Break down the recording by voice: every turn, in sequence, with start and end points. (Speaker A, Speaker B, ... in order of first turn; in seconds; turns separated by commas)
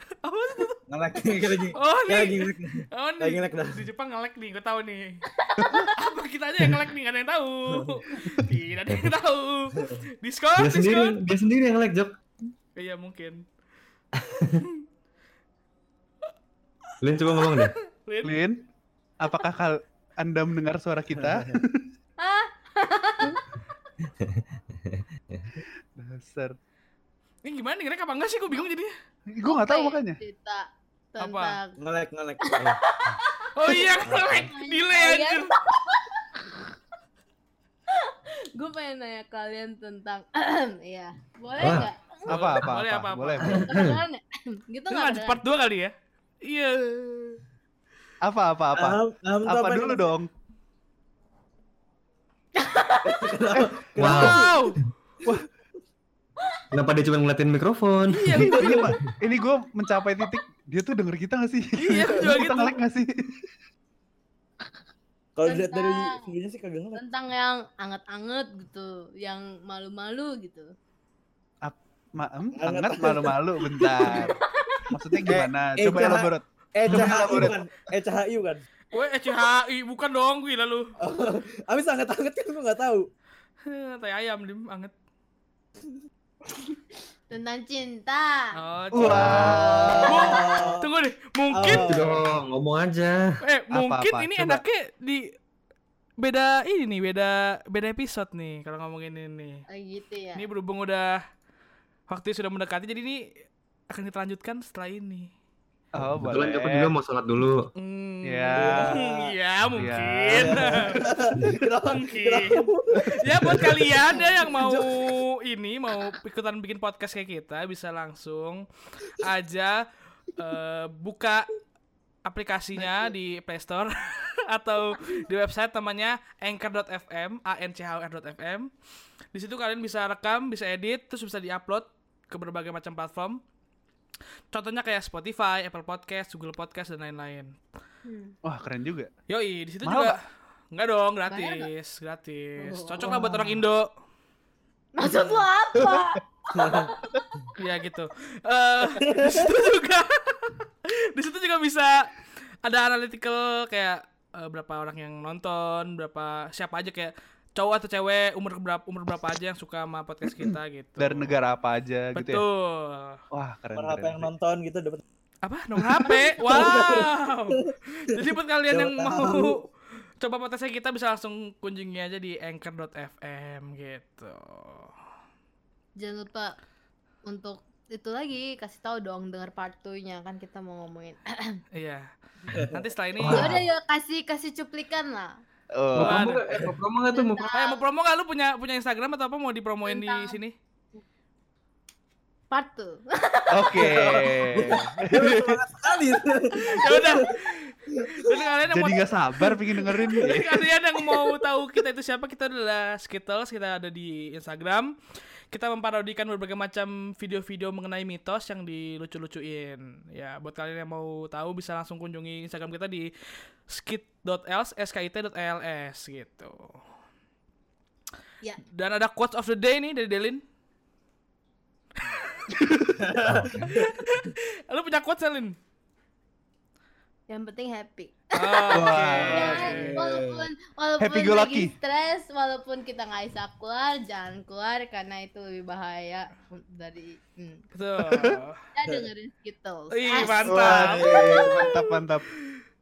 Speaker A: 0.2-0.8, Speaker B: 0.9-3.9, Speaker A: 1.7-5.2, Speaker C: 5.3-6.0, Speaker D: 5.6-5.9, Speaker A: 5.9-11.2, Speaker B: 7.7-8.0, Speaker E: 10.6-12.2, Speaker A: 12.8-13.4, Speaker E: 14.3-14.6, Speaker E: 17.0-17.7, Speaker A: 17.2-18.4, Speaker D: 18.2-18.6, Speaker D: 19.2-21.9, Speaker C: 22.2-23.4, Speaker E: 24.2-25.5, Speaker D: 26.0-26.6, Speaker A: 27.4-28.9, Speaker D: 29.3-30.2, Speaker C: 29.4-31.8, Speaker A: 31.2-31.6, Speaker B: 31.8-32.8, Speaker C: 32.4-36.8, Speaker A: 33.5-35.5, Speaker C: 37.9-42.6, Speaker E: 41.6-41.9, Speaker D: 42.3-43.6, Speaker A: 42.3-43.6, Speaker E: 43.5-44.0, Speaker C: 43.5-45.4, Speaker A: 44.9-47.4, Speaker D: 48.2-50.3, Speaker B: 48.8-50.0, Speaker C: 52.5-53.6, Speaker B: 53.1-54.5, Speaker E: 54.0-54.5, Speaker A: 54.0-54.8, Speaker E: 56.7-58.9, Speaker A: 58.1-59.0, Speaker D: 58.5-63.1, Speaker A: 61.8-62.8, Speaker B: 65.4-67.0, Speaker C: 65.4-66.2, Speaker C: 67.0-70.7, Speaker D: 71.7-74.4, Speaker B: 72.6-74.2, Speaker C: 73.8-75.1, Speaker D: 74.9-77.6, Speaker B: 75.3-78.6, Speaker A: 78.9-80.9, Speaker B: 81.0-83.1, Speaker A: 83.7-84.9, Speaker C: 87.3-88.6, Speaker A: 88.5-92.0, Speaker D: 88.9-90.2, Speaker B: 89.0-90.9, Speaker E: 89.1-89.5, Speaker C: 89.1-90.7, Speaker B: 91.5-92.3, Speaker E: 91.8-93.2, Speaker A: 93.4-95.2, Speaker D: 93.7-94.6, Speaker A: 96.2-99.6, Speaker C: 99.7-100.5, Speaker A: 100.4-101.2, Speaker A: 102.1-103.3, Speaker A: 103.9-105.3, Speaker D: 106.0-106.9, Speaker E: 106.2-107.7, Speaker A: 107.8-111.0, Speaker D: 108.2-109.0, Speaker B: 108.6-109.3, Speaker D: 109.7-110.6, Speaker B: 110.3-114.9, Speaker A: 111.8-121.5, Speaker D: 113.1-113.7, Speaker A: 122.2-128.7, Speaker A: 129.3-133.4, Speaker A: 134.5-137.6, Speaker C: 138.1-138.4, Speaker D: 138.4-139.1, Speaker A: 139.3-140.2, Speaker D: 139.8-140.2, Speaker A: 140.7-143.9, Speaker C: 141.3-141.7, Speaker C: 142.6-143.6, Speaker C: 145.0-147.3, Speaker D: 145.8-146.0, Speaker B: 146.6-146.9, Speaker A: 147.6-161.4, Speaker B: 149.0-149.5, Speaker D: 161.0-162.4, Speaker A: 162.1-163.2, Speaker D: 163.3-164.3, Speaker B: 163.8-165.0, Speaker A: 165.4-169.7, Speaker B: 166.1-168.2, Speaker B: 168.7-169.6, Speaker A: 170.2-174.9, Speaker C: 176.0-176.6, Speaker C: 177.3-181.6, Speaker A: 181.7-182.1, Speaker B: 182.5-183.5, Speaker A: 182.7-183.6, Speaker E: 183.2-183.6, Speaker C: 183.3-185.4, Speaker D: 185.8-186.2, Speaker E: 186.0-187.5, Speaker A: 186.0-186.4, Speaker C: 187.1-187.8, Speaker A: 187.5-190.6, Speaker C: 189.9-190.4, Speaker C: 192.5-194.7, Speaker D: 193.5-195.6, Speaker B: 193.8-197.4, Speaker A: 196.7-199.1, Speaker B: 198.0-198.3, Speaker D: 198.7-200.6, Speaker A: 200.0-204.9, Speaker A: 205.5-213.1, Speaker A: 213.7-216.8, Speaker A: 218.7-220.4, Speaker D: 222.8-223.8, Speaker B: 223.0-224.1, Speaker E: 223.3-223.7, Speaker A: 223.7-225.6, Speaker C: 227.3-237.7, Speaker A: 228.4-230.0, Speaker D: 228.7-229.7, Speaker B: 229.6-230.5, Speaker D: 231.0-231.7, Speaker A: 237.7-238.6, Speaker D: 238.0-238.4, Speaker C: 238.7-241.9, Speaker A: 239.9-241.8, Speaker D: 240.4-242.3